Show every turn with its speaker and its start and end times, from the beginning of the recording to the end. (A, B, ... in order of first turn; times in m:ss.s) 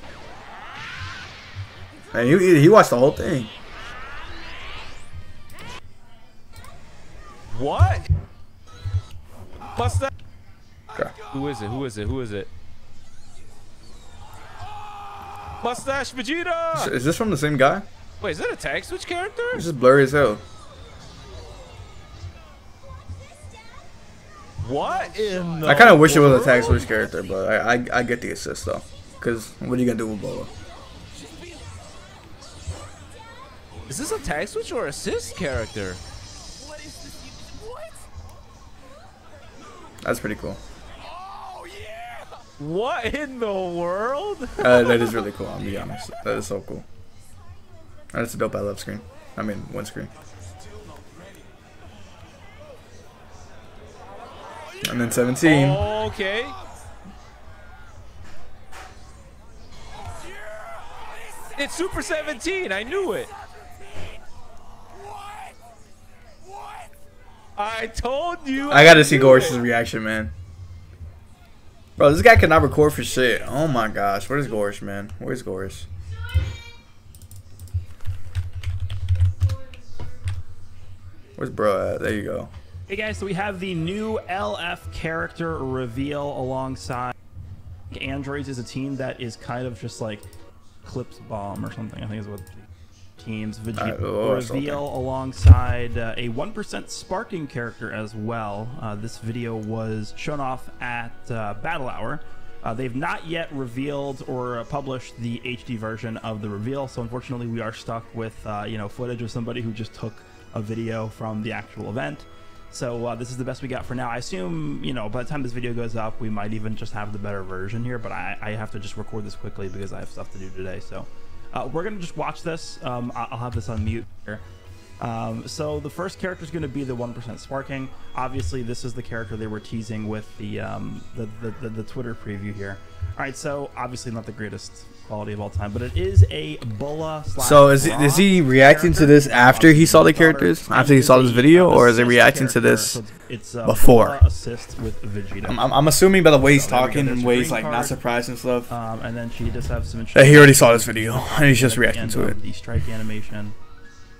0:02.1-0:03.5 A
0:07.5-0:08.1 B
0:09.7-0:10.1 B
0:11.2-0:12.5 B
0:15.5-0:16.9 B
0:16.7-0:17.8 A
0:18.2-0:19.7 B
0:19.5-0:20.4 A
0:24.6-0:26.9 B
0:25.6-0:30.5 A
0:33.9-0:36.0 B
0:40.0-0:40.6 A
0:41.5-0:45.0 B
0:44.6-0:46.8 A
0:48.1-0:50.1 A
0:54.8-0:55.8 A
0:55.4-0:56.6 B
1:01.5-1:03.3 B
1:07.6-1:09.6 B
1:08.7-1:10.3 A
1:12.0-1:15.8 A
1:21.4-1:22.5 A
1:22.9-1:27.1 C
1:27.9-1:30.2 C
1:30.8-2:04.4 C
1:33.8-1:34.8 A
2:05.0-2:25.7 C
2:17.4-2:23.0 A
2:23.6-2:24.2 A
2:25.4-2:28.7 A
2:26.4-2:28.0 C
2:28.7-2:33.5 C
2:30.1-2:32.4 A